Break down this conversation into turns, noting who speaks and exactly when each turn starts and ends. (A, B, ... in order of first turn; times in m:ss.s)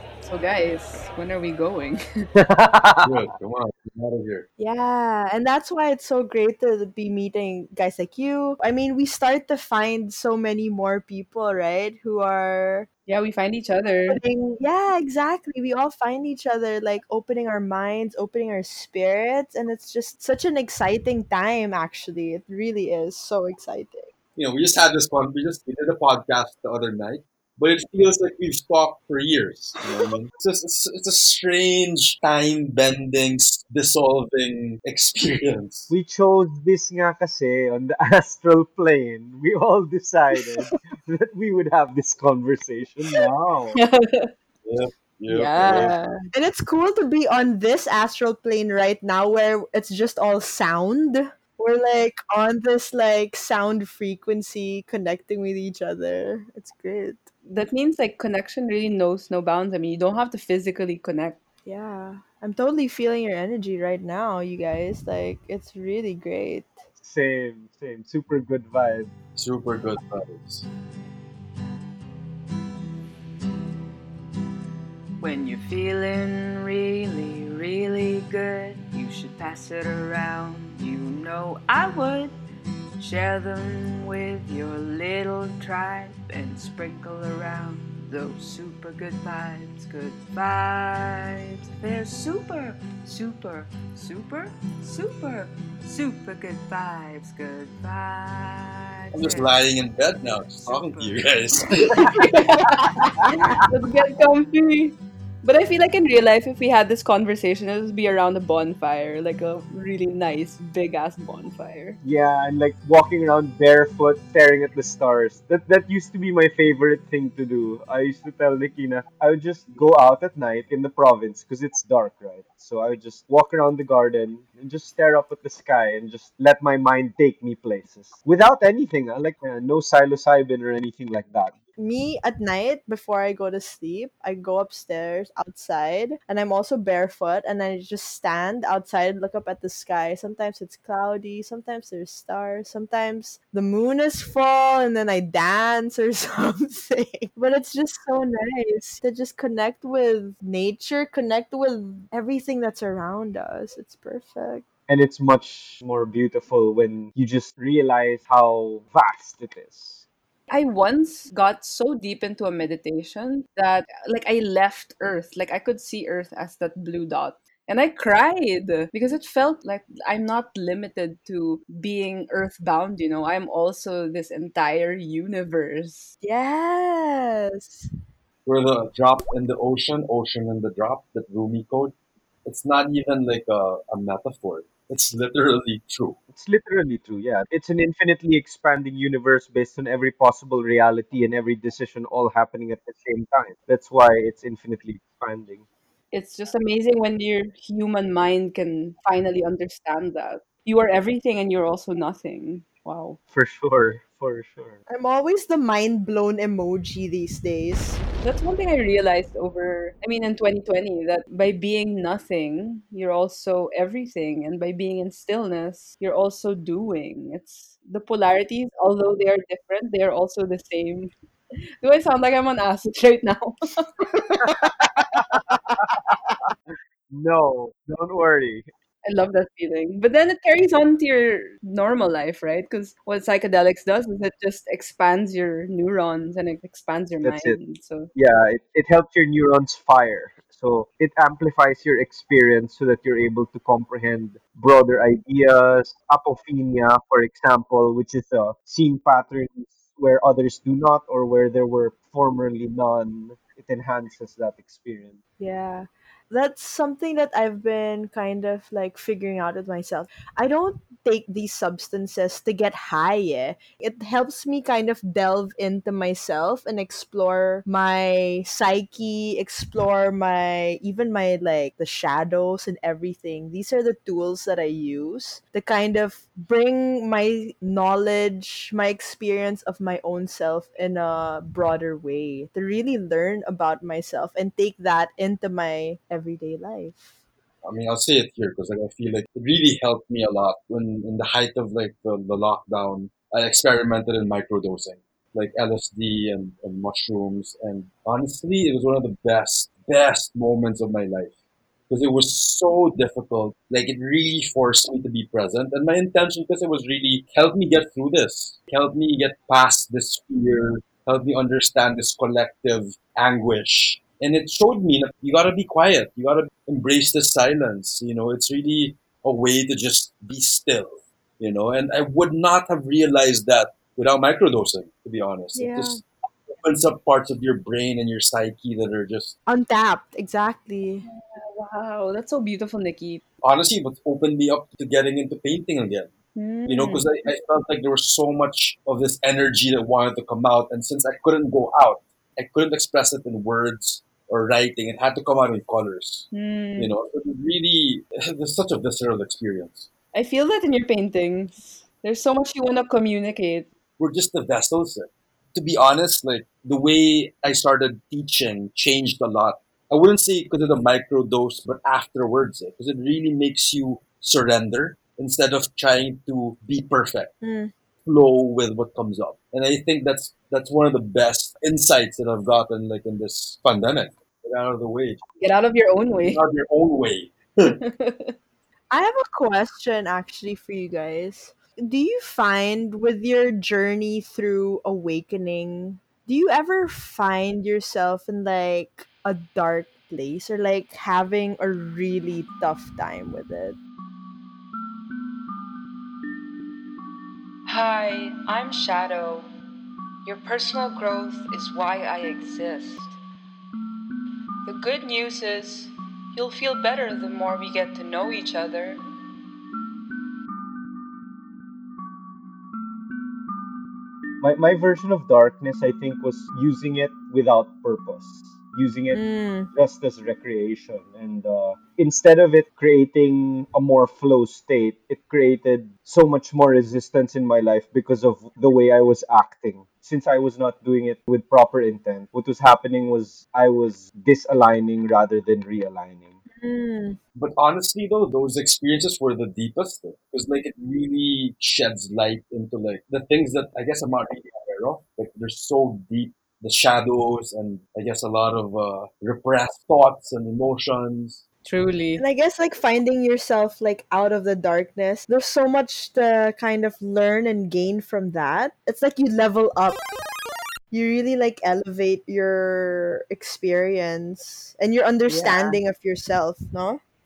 0:00.2-0:02.3 A
0:02.4-0:03.2 B
0:03.0-0:04.5 C
0:04.6-0:12.9 D
0:13.1-0:14.2 A
0:14.1-0:24.1 D
0:24.4-0:35.9 C
0:35.9-0:43.8 B
0:43.8-0:44.3 A
0:44.6-0:46.0 C
0:45.3-0:46.2 A
0:46.3-0:57.3 D
0:57.5-1:01.4 A
1:01.7-1:06.8 D
1:07.0-1:09.1 B
1:09.4-1:10.7 C
1:15.2-1:22.3 E
1:23.0-1:39.5 E
1:39.1-1:42.3 C
1:40.2-1:41.2 E
1:42.0-1:52.0 A
1:52.0-2:11.6 B
2:11.8-2:34.6 D
2:34.9-2:40.0 B
2:40.5-2:56.1 A
2:56.2-2:57.9 D
2:58.5-3:06.2 C
3:06.3-3:15.6 B
3:16.1-3:23.2 A
3:23.3-3:24.8 B
3:24.9-3:28.0 D
3:28.2-3:41.1 A
3:41.8-3:44.4 A
3:44.3-3:46.5 B
3:47.1-3:48.7 B
3:49.0-3:58.1 A
3:57.2-3:57.6 B
3:58.2-4:15.2 B
4:15.4-4:47.1 D
4:47.6-5:01.3 C
5:01.9-5:26.0 C
5:25.6-5:26.0 D
5:26.6-5:29.4 C
5:29.5-5:31.1 D
5:31.0-5:33.2 A
5:33.4-5:36.1 C
5:36.4-5:37.1 A
5:36.7-5:49.9 C
5:46.3-5:46.9 A
5:50.1-5:53.7 A
5:54.0-6:07.4 C
6:07.4-6:07.7 D
6:08.0-6:15.2 C
6:15.4-6:16.4 A
6:16.2-6:17.8 C
6:17.8-6:18.3 A
6:18.9-6:33.8 D
6:37.7-6:39.5 E
6:40.2-6:43.2 E
6:44.7-6:45.7 E
6:45.6-6:46.4 A
6:46.4-6:48.8 E
6:47.0-6:49.0 A
6:54.4-6:59.2 B
6:59.1-6:59.7 D
6:59.7-7:16.4 B
7:16.6-7:17.2 D
7:17.4-7:31.4 C
7:31.6-7:32.2 A
7:32.2-7:40.0 D
7:40.9-7:47.0 D
7:45.3-7:45.8 A